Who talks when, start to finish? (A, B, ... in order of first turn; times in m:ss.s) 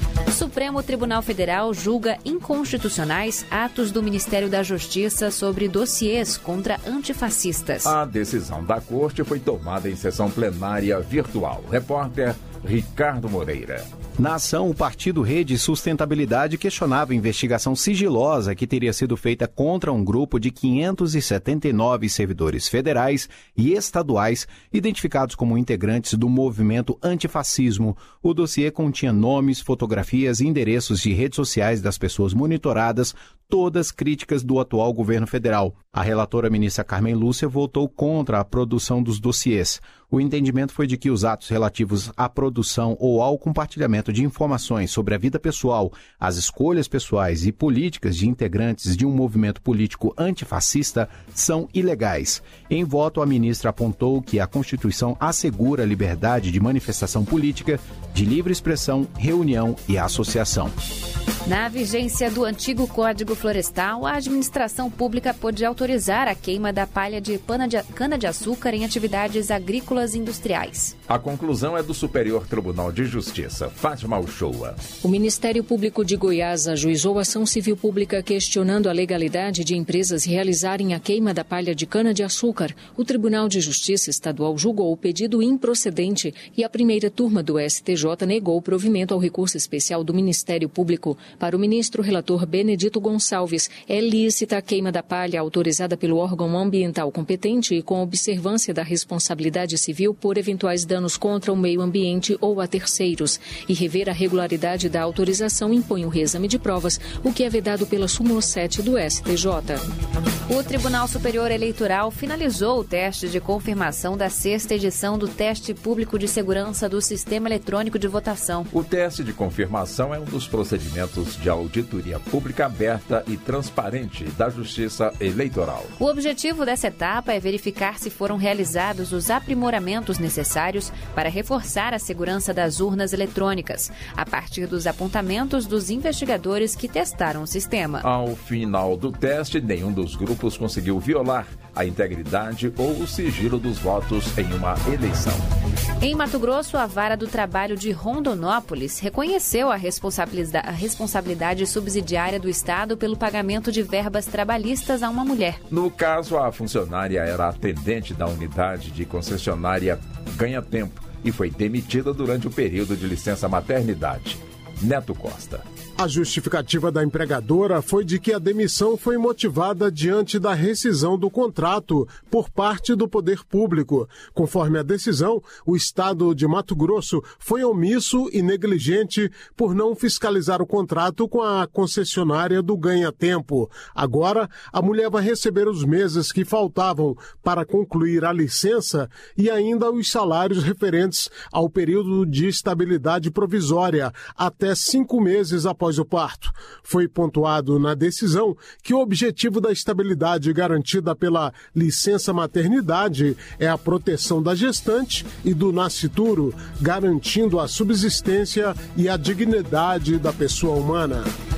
0:00.3-0:07.9 A
0:07.8-0:13.9 B
0:14.2-1:00.7 C
1:01.5-1:11.0 A
1:11.1-1:14.8 B
1:15.0-1:49.8 D
1:50.5-1:58.7 A
1:58.7-2:05.9 B
2:06.0-2:18.0 A
2:18.0-2:25.4 B
2:26.0-2:35.6 A
2:35.7-2:45.6 B
2:46.0-3:31.3 E